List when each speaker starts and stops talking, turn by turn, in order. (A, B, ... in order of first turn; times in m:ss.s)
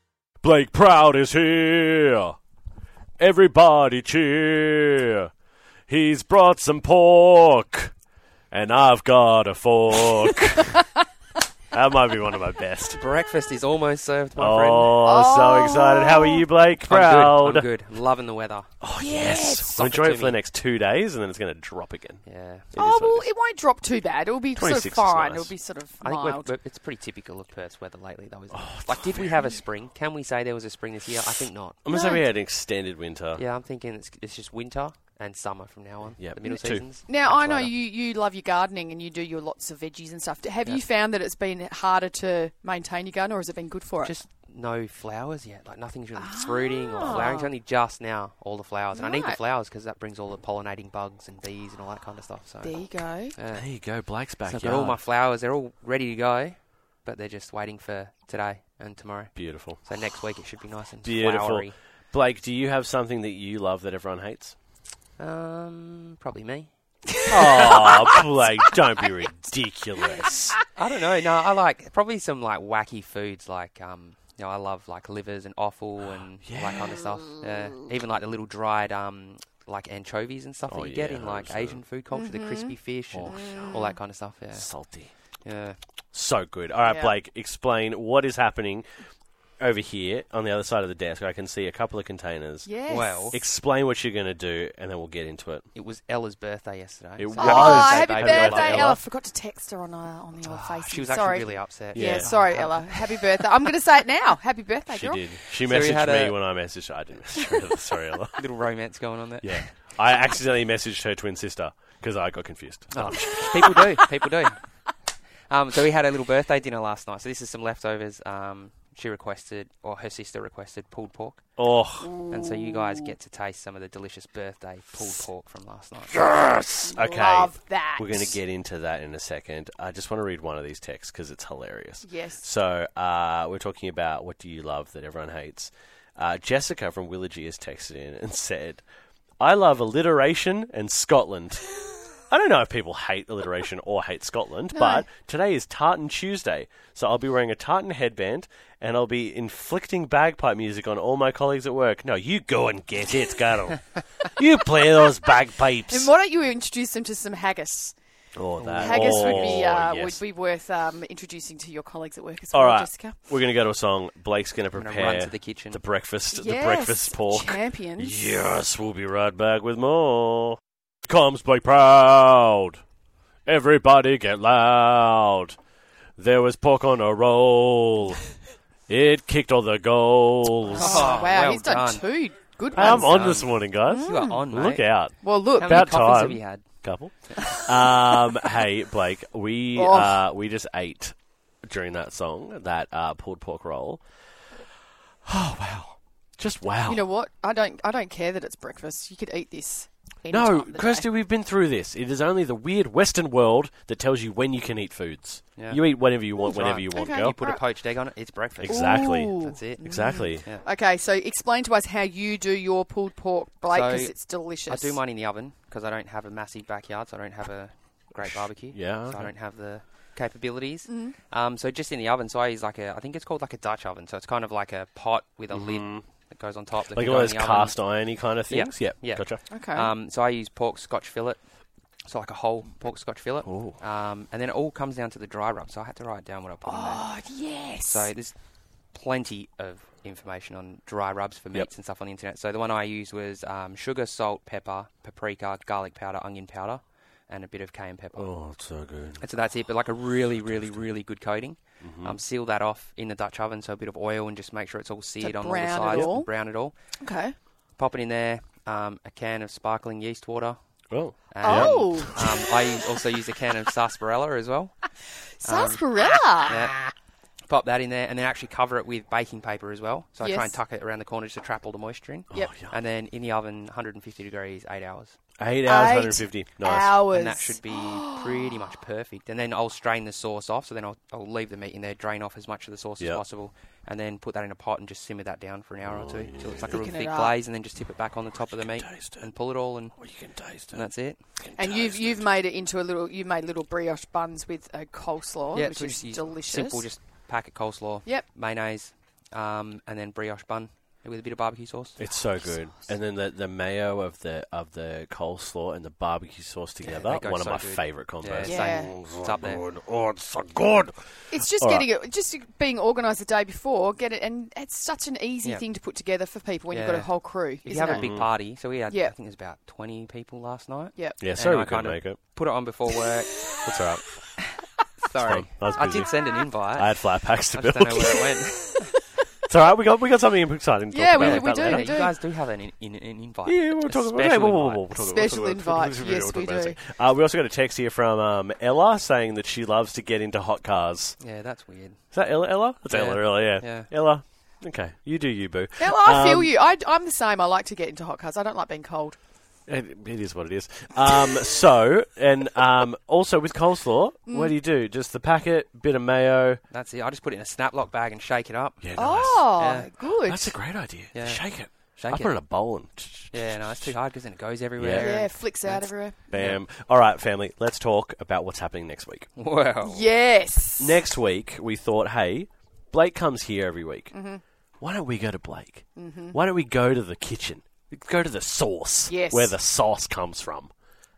0:00.4-0:02.4 A
0:03.2-0:05.3 A
0:05.9-0:07.9 A
0:08.5-0:10.8 A
0:11.7-0:13.0 A
0:12.9-0:15.0 B
0:14.4-0:17.7 A
0:15.0-0:16.5 C
0:16.8-0:18.7 B
0:18.8-0:23.3 A
0:18.9-0:19.7 C
0:19.6-0:20.4 B
0:22.2-0:22.7 B
0:22.7-0:26.5 C
0:24.5-0:25.5 A
0:26.0-0:31.8 B
0:28.5-0:29.3 A
0:31.8-0:33.4 A
0:31.9-0:32.2 C
0:33.3-0:37.7 B
0:36.2-0:36.9 A
0:36.4-0:44.1 C
0:44.0-0:53.7 B
0:46.2-0:47.5 C
0:48.9-0:49.4 C
0:52.6-0:53.4 C
0:53.5-0:55.0 A
0:54.4-1:01.7 B
0:59.4-0:59.8 A
1:01.0-1:04.6 A
1:05.2-1:06.7 B
1:07.3-1:10.6 A
1:07.3-1:08.1 C
1:07.5-1:07.9 B
1:10.8-1:24.7 B
1:16.4-1:17.1 A
1:20.7-1:21.8 A
1:22.1-1:22.7 C
1:23.1-1:23.9 A
1:23.3-1:23.9 C
1:24.5-1:25.1 A
1:25.4-1:25.8 B
1:26.1-1:28.8 A
1:26.8-1:27.1 C
1:29.6-1:35.6 A
1:32.6-1:33.3 C
1:32.9-1:33.4 B
1:35.7-1:39.0 B
1:37.2-1:39.0 A
1:37.4-1:45.3 C
1:40.4-1:43.4 B
1:41.9-1:42.6 A
1:44.9-1:48.4 A
1:45.6-1:46.4 B
1:48.4-1:49.7 B
1:49.4-1:53.9 A
1:52.9-1:54.6 B
1:55.5-2:01.4 B
2:01.6-2:02.1 A
2:02.0-2:02.7 C
2:02.3-2:06.2 B
2:06.1-2:18.8 A
2:06.8-2:08.3 C
2:12.0-2:12.4 C
2:19.4-2:21.7 A
2:22.3-2:36.1 A
2:24.7-2:25.1 C
2:35.9-2:37.9 C
2:38.4-2:40.2 A
2:38.6-2:39.5 B
2:38.8-2:43.2 C
2:42.5-2:52.8 A
2:44.7-2:45.8 B
2:46.3-2:48.3 C
2:53.4-2:55.6 A
2:56.2-2:58.2 A
2:58.9-3:01.3 A
3:00.7-3:02.1 B
3:00.7-3:03.2 C
3:02.7-3:04.8 B
3:02.7-3:14.0 A
3:03.8-3:04.4 C
3:05.2-3:05.8 C
3:05.5-3:06.6 B
3:09.7-3:10.2 C
3:15.2-3:17.1 A
3:16.8-3:21.1 C
3:20.3-3:27.4 A
3:25.6-3:25.8 B
3:26.4-3:30.6 B
3:26.4-3:27.6 C
3:28.6-3:30.4 A
3:28.7-3:35.0 C
3:33.7-3:51.4 B
3:38.7-3:39.3 A
3:40.9-3:41.2 C
3:45.5-3:46.0 A
3:46.9-3:49.4 A
3:49.5-3:49.9 C
3:52.0-3:57.1 B
3:53.4-3:53.8 A
3:56.6-3:58.1 C
3:57.8-3:58.3 B
3:58.9-4:08.3 B
4:08.1-4:09.2 A
4:09.2-4:16.7 B
4:11.8-4:12.2 A
4:15.2-4:16.3 C
4:15.9-4:16.1 A
4:17.0-4:17.3 C
4:17.8-4:20.6 B
4:20.9-4:22.4 A
4:21.3-4:24.9 B
4:21.4-4:22.3 C
4:25.4-4:26.7 C
4:25.4-4:25.8 B
4:26.4-4:26.8 B
4:27.4-4:35.2 B
4:30.2-4:30.6 C
4:32.3-4:32.7 A
4:35.4-4:37.0 A
4:35.6-4:38.5 C
4:37.1-4:50.0 B
4:45.8-4:46.6 A
4:46.7-4:47.4 C
4:48.6-4:49.3 A
4:50.0-4:50.8 A
4:50.7-4:51.2 B
4:51.4-4:52.2 A
4:51.6-4:56.9 C
4:55.5-5:02.0 B
5:02.0-5:10.9 A
5:06.8-5:09.6 B
5:08.4-5:09.0 C
5:11.3-5:18.1 C
5:11.5-5:11.9 A
5:16.7-5:23.4 B
5:17.9-5:18.3 A
5:18.9-5:19.1 C
5:21.0-5:21.3 C
5:21.2-5:22.2 A
5:23.6-5:24.0 A
5:25.0-5:28.9 B
5:25.2-5:26.1 A
5:26.7-5:28.3 A
5:29.4-5:32.0 A
5:30.9-5:32.2 C
5:31.1-5:34.8 B
5:33.4-5:41.2 A
5:34.9-5:36.8 C
5:41.2-5:42.0 B
5:42.1-5:46.5 A
5:42.9-5:43.9 B
5:45.8-5:49.2 C
5:49.7-5:56.6 A
5:54.3-5:54.5 C
5:56.7-5:58.8 B
5:58.8-6:03.9 A
5:59.0-6:00.6 C
5:59.5-5:59.9 B
6:01.1-6:02.4 B
6:03.3-6:06.6 B
6:04.8-6:05.1 A
6:04.9-6:06.3 C
6:06.3-6:09.3 A
6:09.4-6:10.0 B
6:09.8-6:11.0 C
6:10.8-6:14.1 A
6:14.1-6:14.4 C
6:14.8-6:20.7 A
6:16.0-6:16.4 C
6:19.1-6:19.6 C